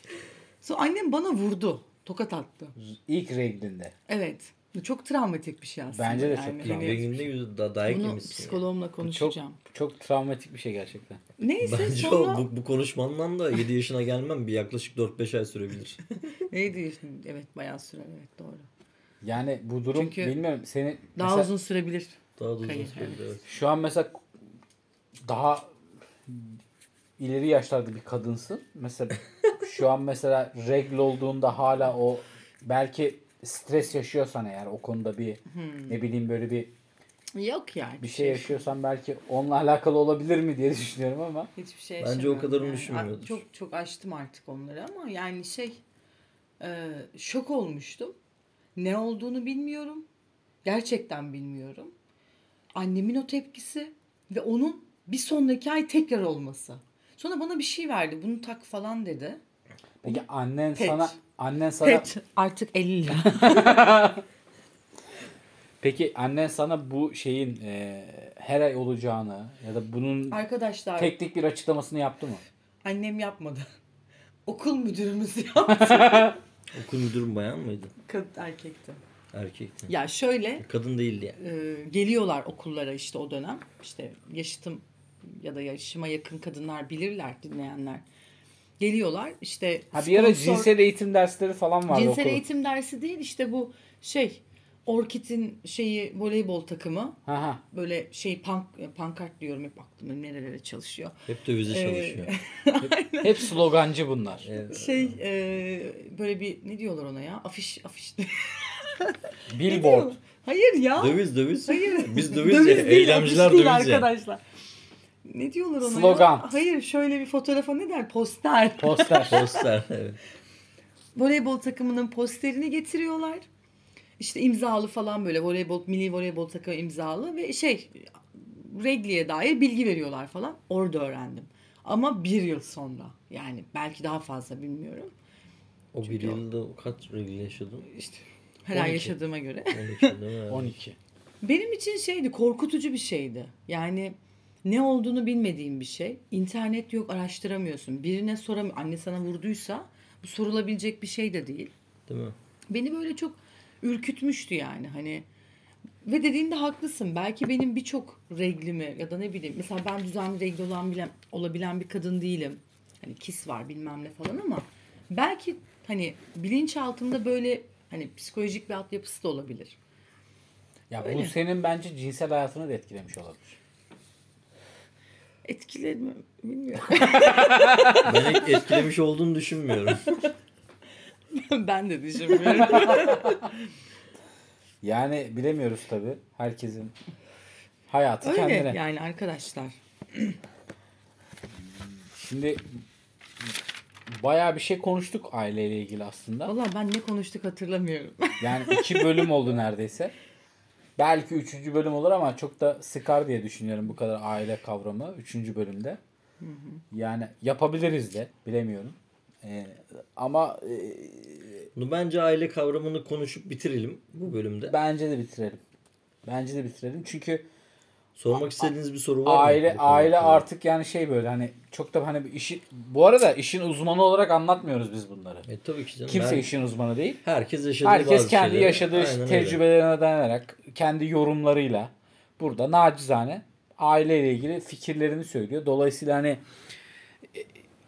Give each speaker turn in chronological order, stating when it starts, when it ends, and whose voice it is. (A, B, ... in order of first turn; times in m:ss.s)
0:00.6-0:02.8 A
0:02.8-0:03.9 B
0:04.1-0:07.0 A
0:05.9-0:07.2 B
0:06.6-0:08.6 C
0:07.9-0:09.6 A
0:09.0-0:11.2 B
0:11.4-0:12.5 A
0:11.6-0:16.0 C
0:16.3-0:18.7 A
0:19.2-0:21.5 B
0:19.9-0:20.4 A
0:21.2-0:23.2 A
0:22.4-0:23.4 C
0:23.4-0:24.2 B
0:25.3-0:25.7 B
0:26.3-0:26.6 B
0:27.2-0:36.7 B
0:35.5-0:36.0 A
0:37.4-0:38.7 A
0:38.0-0:41.5 B
0:41.6-0:45.8 A
0:42.0-0:43.4 C
0:46.6-0:48.2 A
0:48.8-0:50.1 A
0:50.6-0:51.9 A
0:52.7-0:59.4 A
1:00.0-1:02.0 B
1:00.8-1:01.2 A
1:01.8-1:03.8 A
1:03.3-1:04.2 B
1:05.8-1:10.4 B
1:10.3-1:11.2 A
1:11.0-1:12.4 B
1:12.8-1:13.7 A
1:14.5-1:16.4 A
1:15.7-1:16.4 B
1:16.7-1:17.9 C
1:18.0-1:19.0 A
1:19.3-1:19.9 C
1:19.9-1:20.6 A
1:20.6-1:21.4 C
1:21.4-1:28.0 A
1:28.8-1:30.7 A
1:29.9-1:32.4 B
1:31.9-1:37.2 A
1:37.3-1:37.6 B
1:37.7-1:41.2 A
1:41.3-1:42.3 C
1:41.7-1:43.6 A
1:43.2-1:44.5 B
1:44.4-1:45.2 C
1:44.7-1:54.4 A
1:49.5-1:50.2 B
1:51.0-1:54.1 C
1:55.3-1:59.7 A
1:55.8-1:56.5 B
1:58.8-1:59.4 B
1:59.3-2:00.2 C
2:01.2-2:03.5 A
2:04.2-2:15.1 A
2:15.9-2:17.9 C
2:16.0-2:16.4 A
2:17.9-2:20.2 A
2:18.7-2:19.2 C
2:19.7-2:20.7 C
2:20.5-2:21.0 B
2:21.4-2:31.7 A
2:32.1-2:32.4 C
2:32.7-2:35.2 A
2:36.0-2:49.8 A
2:50.9-2:53.6 B
2:51.0-2:51.4 A
2:55.4-2:58.6 A
2:57.0-2:58.1 B
2:58.0-3:00.1 C
3:01.3-3:03.6 A
3:04.8-3:06.9 B
3:07.9-3:08.8 B
3:08.2-3:10.4 A
3:12.1-3:12.6 B
3:14.1-3:16.5 B
3:16.5-3:19.3 A
3:18.4-3:20.1 B
3:21.0-3:26.0 B
3:26.4-3:26.8 A
3:26.9-3:31.7 B
3:31.8-3:34.8 C
3:34.7-3:35.6 B
3:36.3-3:37.5 B
3:38.2-3:40.4 C
3:38.4-3:38.7 B
3:39.2-3:45.4 B
3:45.4-3:46.5 C
3:46.1-3:47.2 B
3:47.2-3:49.6 C
3:47.8-3:56.4 B